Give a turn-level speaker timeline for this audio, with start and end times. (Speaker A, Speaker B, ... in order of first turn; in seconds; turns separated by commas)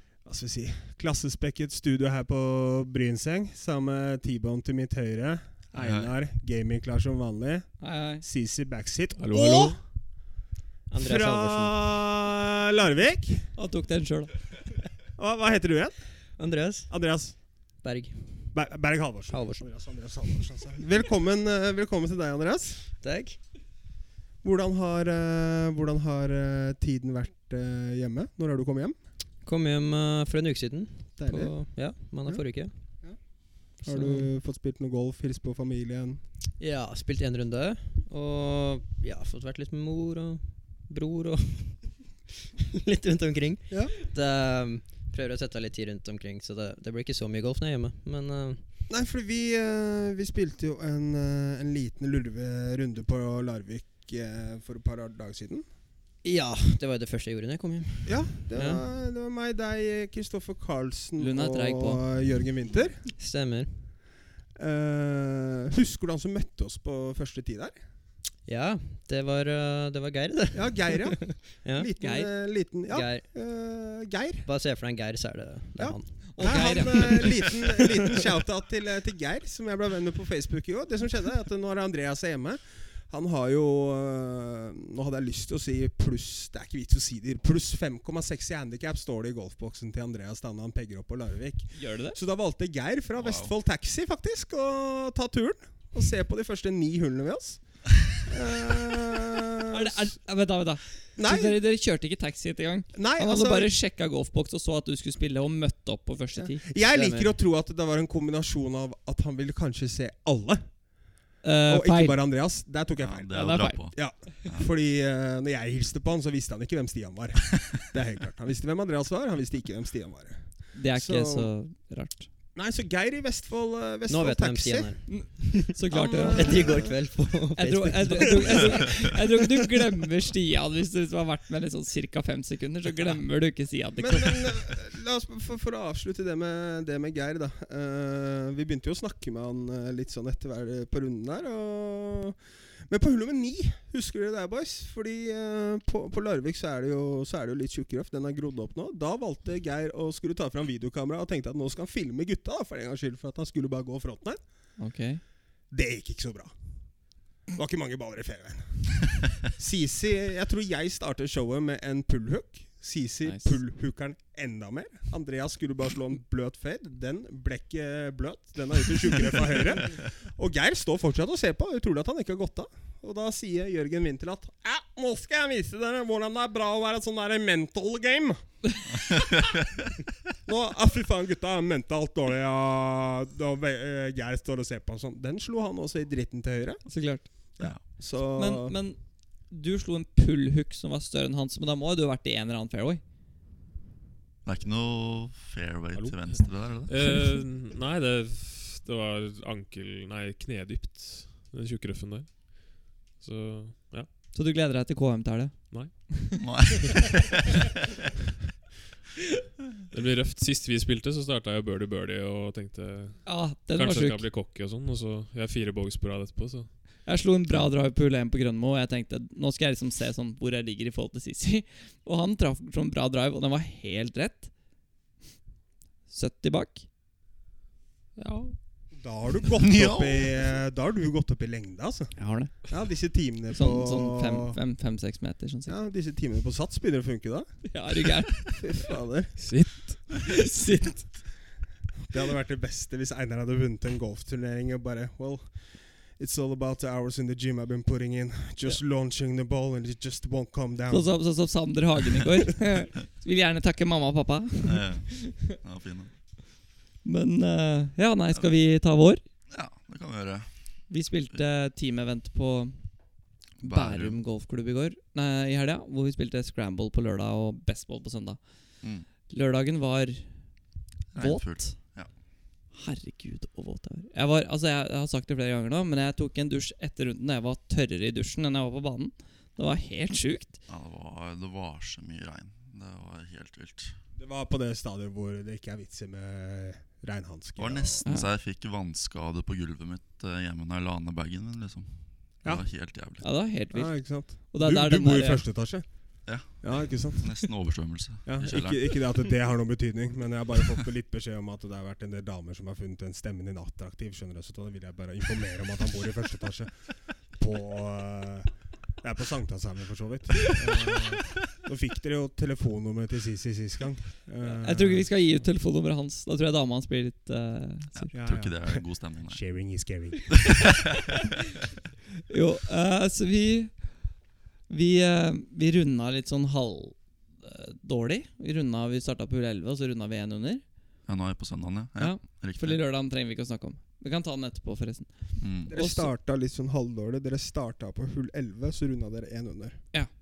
Speaker A: 0.2-9.8, Speaker B: 5.8-6.1, Speaker C: 7.8-8.2, Speaker D: 9.2-9.8, Speaker E: 10.9-11.8, Speaker A: 11.0-13.5, Speaker C: 13.6-14.3, Speaker A: 15.2-15.9, Speaker E: 16.4-16.9, Speaker A: 16.9-17.4, Speaker E: 17.8-18.5, Speaker A: 18.5-22.9, Speaker E: 19.3-19.7, Speaker E: 23.0-23.4, Speaker A: 24.4-29.0, Speaker E: 29.4-32.7, Speaker A: 31.2-32.4, Speaker A: 33.0-36.2, Speaker E: 33.9-34.2, Speaker E: 36.6-41.9, Speaker E: 42.5-48.6, Speaker A: 43.7-43.9, Speaker A: 48.9-55.6, Speaker E: 56.2-58.8, Speaker A: 58.1-63.0, Speaker C: 61.2-62.0, Speaker E: 63.1-63.9, Speaker A: 64.6-67.8, Speaker E: 68.5-71.9, Speaker A: 70.5-74.5, Speaker C: 72.0-72.3, Speaker E: 72.9-73.3, Speaker E: 74.5-77.8, Speaker A: 75.8-100.0, Speaker C: 76.3-77.5, Speaker C: 91.8-92.2, Speaker B: 93.2-93.5, Speaker C: 99.7-106.6, Speaker A: 101.2-101.6, Speaker A: 102.9-103.7, Speaker A: 106.4-110.7, Speaker E: 106.9-107.3, Speaker C: 111.4-112.2, Speaker A: 111.7-113.3, Speaker B: 113.0-114.7, Speaker C: 113.3-113.8, Speaker A: 113.9-121.5, Speaker C: 120.7-122.3, Speaker A: 122.5-125.1, Speaker E: 124.1-125.7, Speaker C: 125.1-126.7, Speaker A: 125.9-127.0, Speaker E: 126.3-128.9, Speaker C: 127.6-134.5, Speaker A: 128.4-128.8, Speaker A: 134.0-154.4, Speaker C: 154.8-155.2, Speaker A: 155.7-156.5, Speaker A: 157.5-178.4, Speaker C: 163.2-163.6, Speaker A: 180.4-188.8, Speaker C: 186.9-193.0, Speaker B: 194.4-196.9, Speaker D: 196.9-204.1, Speaker C: 204.3-206.4, Speaker D: 205.7-206.1, Speaker B: 206.4-207.4, Speaker D: 209.9-217.0, Speaker C: 213.2-214.3, Speaker C: 217.0-224.5, Speaker C: 226.1-226.8, Speaker D: 228.2-228.6, Speaker A: 228.9-232.2, Speaker B: 229.6-230.3, Speaker C: 232.2-232.5, Speaker A: 232.7-234.6, Speaker C: 233.5-235.8, Speaker A: 235.7-237.7, Speaker C: 237.7-238.6, Speaker A: 238.5-239.3, Speaker D: 239.4-240.0, Speaker C: 240.2-241.1, Speaker A: 242.1-251.1, Speaker C: 250.9-255.6, Speaker B: 254.6-256.1, Speaker C: 257.0-259.2, Speaker B: 259.5-260.8, Speaker C: 260.9-263.0, Speaker B: 263.6-264.2, Speaker C: 263.6-268.4, Speaker B: 268.8-269.1, Speaker C: 269.3-270.3, Speaker B: 271.1-272.1, Speaker C: 271.2-271.8, Speaker C: 272.7-280.6, Speaker B: 280.7-284.0, Speaker A: 284.2-288.1, Speaker B: 287.6-293.2, Speaker C: 288.0-288.3, Speaker C: 293.2-295.4, Speaker A: 293.7-297.3, Speaker B: 296.3-299.1, Speaker A: 298.3-306.7, Speaker A: 307.3-315.1, Speaker C: 314.4-318.1, Speaker B: 317.9-319.4, Speaker A: 318.1-320.8, Speaker C: 322.3-323.9, Speaker C: 324.7-330.6, Speaker B: 331.1-332.8, Speaker C: 332.0-336.1, Speaker B: 335.4-335.7, Speaker A: 335.7-339.9